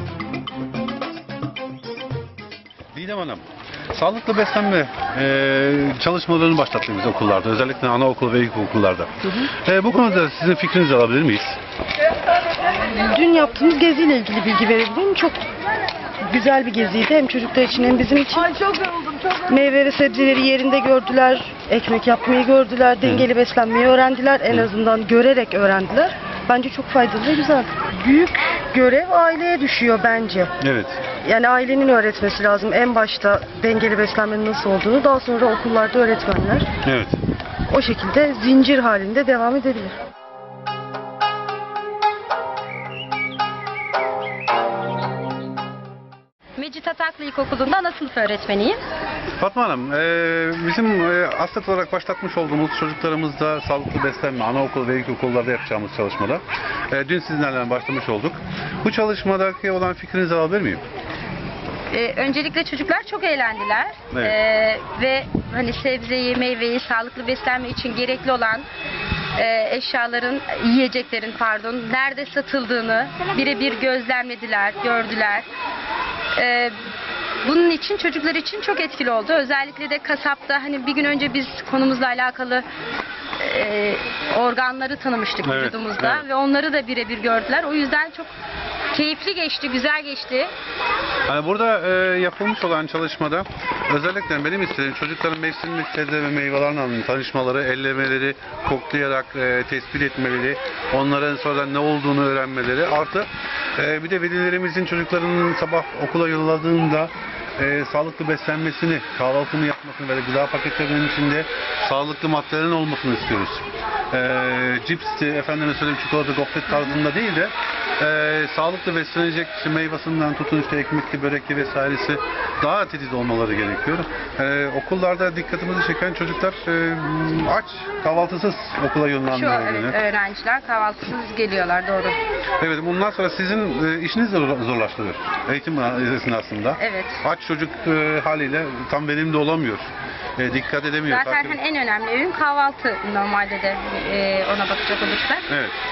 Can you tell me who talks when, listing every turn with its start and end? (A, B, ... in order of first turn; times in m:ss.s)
0:02.9-0:11.6 A
0:13.0-0:15.4 B
0:16.2-0:18.8 B
0:19.5-0:30.5 B
0:30.6-0:31.0 A
0:31.2-0:36.7 B
0:36.8-0:37.2 A
0:37.7-0:40.0 B
0:46.6-0:48.8 C
0:49.4-1:00.8 A
1:01.9-1:08.7 C
1:09.4-1:15.5 C
1:16.4-1:16.8 C
1:17.4-1:22.7 C
1:23.4-1:28.3 C
1:25.4-1:26.2 A
1:28.9-1:30.5 C
1:31.3-2:10.0 A
2:09.3-2:12.2 C
2:12.6-2:21.6 A
2:16.8-2:17.2 C
2:21.1-2:25.5 C
2:25.5-2:25.8 A